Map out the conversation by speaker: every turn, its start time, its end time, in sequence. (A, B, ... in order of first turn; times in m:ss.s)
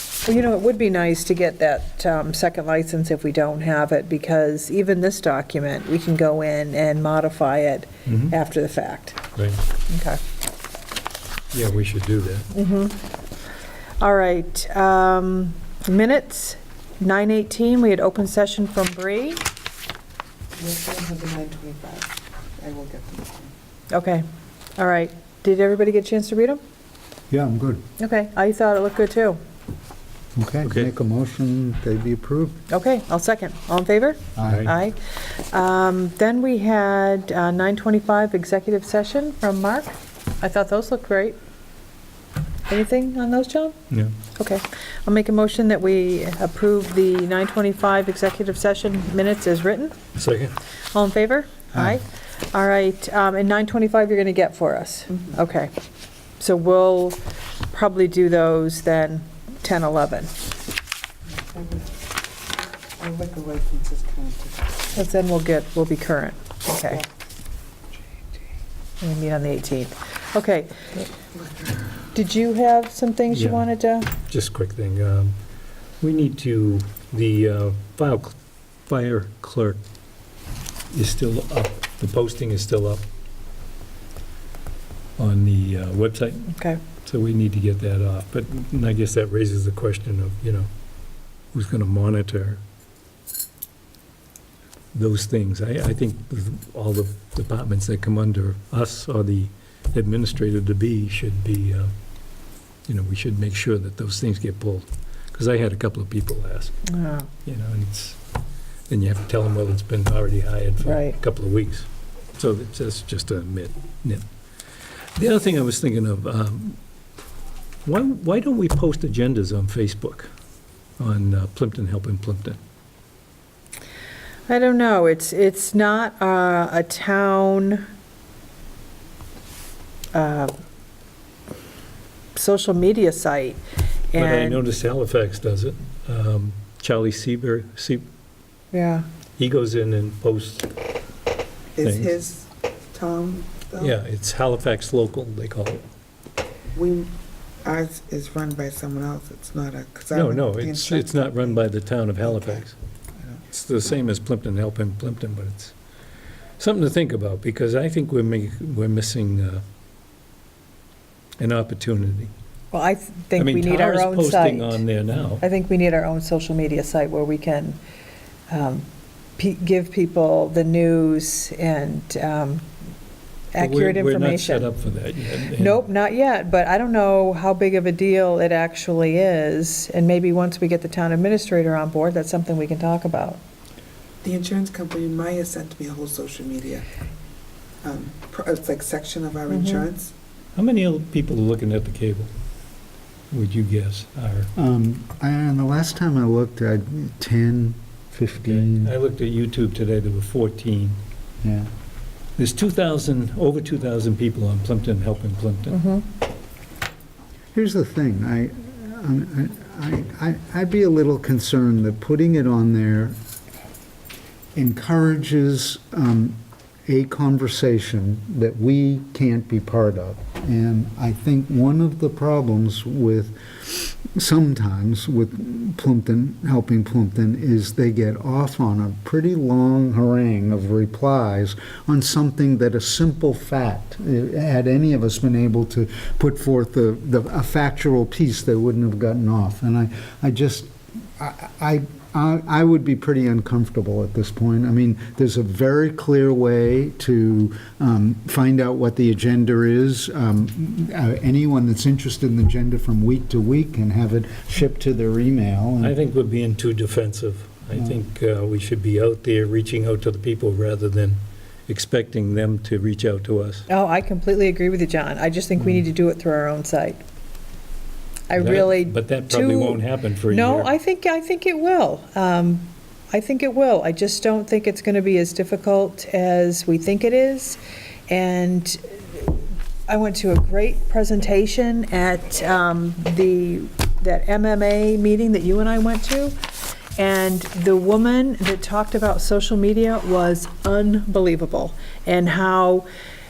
0:00.2-0:09.2 A
0:08.0-0:08.3 B
0:09.9-0:10.2 A
0:11.5-0:12.5 B
0:12.5-0:13.0 A
0:14.0-0:19.4 A
0:20.6-0:23.5 C
0:23.9-0:24.2 A
0:24.8-0:26.6 A
0:27.3-0:27.8 D
0:28.0-0:29.4 A
0:30.4-0:32.6 D
0:30.6-0:30.9 B
0:32.7-0:41.4 A
0:34.4-0:34.7 D
0:34.4-0:34.7 B
0:42.7-0:43.7 A
0:44.3-0:50.0 A
0:50.2-0:50.5 B
0:50.9-0:55.7 A
0:56.4-0:57.2 A
0:57.7-1:00.3 A
1:01.3-1:02.0 C
1:03.0-1:05.0 C
1:04.9-1:07.0 A
1:09.0-1:10.9 A
1:11.3-1:11.9 C
1:12.1-1:14.1 A
1:13.3-1:13.7 B
1:14.2-1:15.4 B
1:16.0-1:19.8 B
1:20.9-1:23.0 B
1:25.2-1:30.7 B
1:26.5-1:26.8 A
1:31.5-1:32.6 B
1:34.9-1:41.9 B
1:42.9-1:46.8 B
1:46.9-1:47.3 A
1:47.4-1:48.2 B
1:48.9-1:54.2 B
1:50.8-1:51.2 A
1:55.2-1:56.8 B
1:57.8-2:00.3 B
2:01.0-2:02.6 B
2:04.5-2:07.8 A
2:10.1-2:10.5 A
2:12.3-2:13.6 A
2:14.1-2:14.6 A
2:14.1-2:18.0 B
2:18.7-2:19.0 A
2:19.4-2:20.7 B
2:21.8-2:24.0 C
2:21.8-2:22.2 B
2:23.8-2:25.8 B
2:26.7-2:27.1 C
2:27.6-2:31.6 C
2:30.1-2:32.8 B
2:32.2-2:32.6 C
2:33.5-2:35.7 B
2:36.6-2:39.6 B
2:41.4-2:42.3 B
2:42.7-2:44.8 A
2:43.4-2:45.4 B
2:45.4-2:47.8 A
2:48.5-2:48.8 A
2:49.4-2:52.6 A
2:53.5-2:54.6 A
2:53.6-2:55.8 B
2:55.5-3:03.4 A
3:04.2-3:06.9 C
3:07.8-3:10.1 C
3:09.5-3:09.8 A
3:10.6-3:12.3 B
3:13.3-3:14.5 B
3:14.6-3:18.9 D
3:18.4-3:21.0 B
3:21.4-3:21.7 D
3:22.4-3:25.8 B
3:25.7-3:26.0 A
3:27.5-3:33.2 D
3:34.5-4:15.9 D
4:15.8-4:23.6 B
4:23.7-4:27.0 A
4:28.3-4:39.3 A
4:28.4-4:30.7 B
4:39.9-4:46.3 A
4:47.0-4:52.8 A